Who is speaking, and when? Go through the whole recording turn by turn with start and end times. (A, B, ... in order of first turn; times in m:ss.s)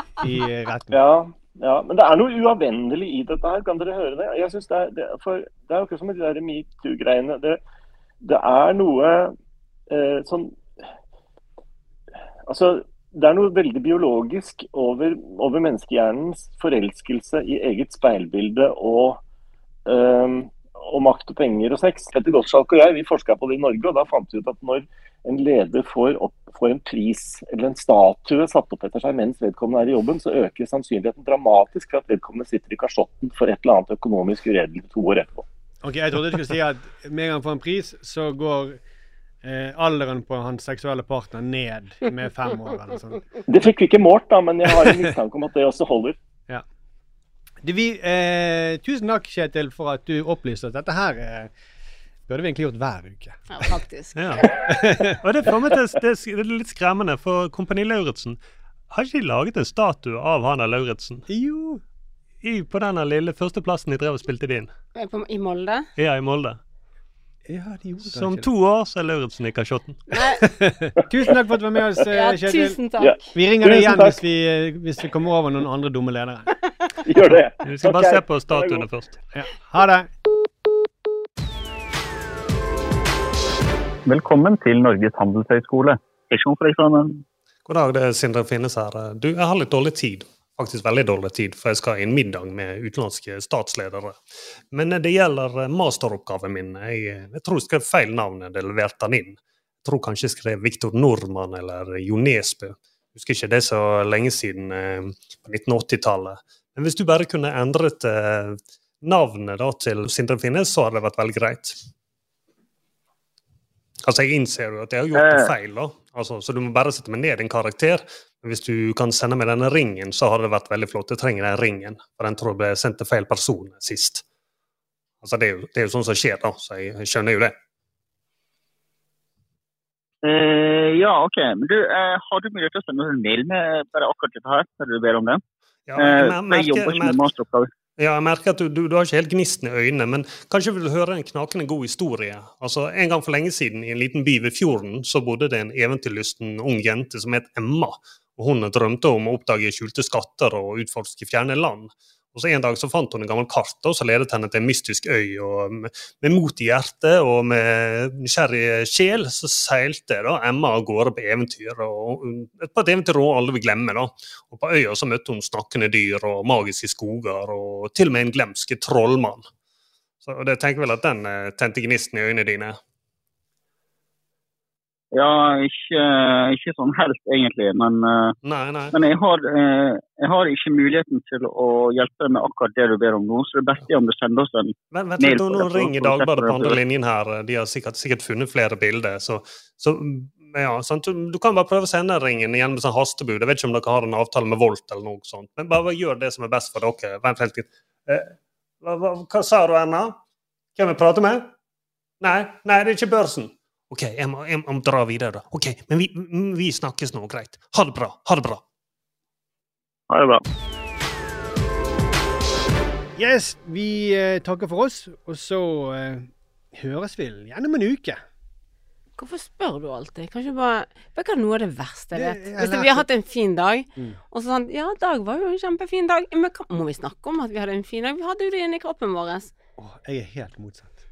0:00.2-0:01.0 A
0:00.9-0:07.6 B
0:08.2-0:09.3 B
0:09.9-0:10.6 B
0:12.4-0:19.2 B
0:19.8-0:35.4 B
0:35.8-0:38.8 A
0:39.4-0:43.3 A
0:43.5-0:46.2 B
0:44.7-0:45.0 A
0:47.6-0:51.5 A
0:52.3-0:53.5 A
0:53.5-0:54.5 C
0:54.2-0:54.4 D
0:54.6-0:55.2 A
0:55.2-0:58.4 D
0:58.9-1:01.2 D
1:01.3-1:01.8 A
1:02.4-1:04.7 D
1:04.9-1:05.8 C
1:06.0-1:06.6 D
1:07.5-1:08.5 A
1:08.0-1:10.0 D
1:10.1-1:10.4 C
1:10.4-1:16.6 A
1:11.0-1:11.3 B
1:12.1-1:13.3 C
1:13.0-1:14.2 B
1:17.0-1:18.8 B
1:17.6-1:19.2 D
1:19.3-1:20.1 A
1:24.0-1:27.2 E
1:27.7-1:34.2 D
1:34.7-1:51.8 D
1:54.0-2:04.2 D
1:55.1-1:55.5 E
2:05.2-2:07.5 D
2:10.2-2:15.4 E
2:15.9-2:17.2 D
2:16.0-2:17.7 E
2:18.0-2:49.4 D
2:50.2-2:52.8 D
2:55.1-2:58.3 E
2:58.4-2:58.9 D
2:58.9-3:06.8 E
3:04.9-3:20.2 D
3:20.8-3:21.5 D
3:22.2-3:28.6 D
3:30.1-3:30.4 E
3:33.2-3:38.2 A
3:39.2-3:49.5 C
3:42.1-3:43.0 A
3:49.8-3:51.0 A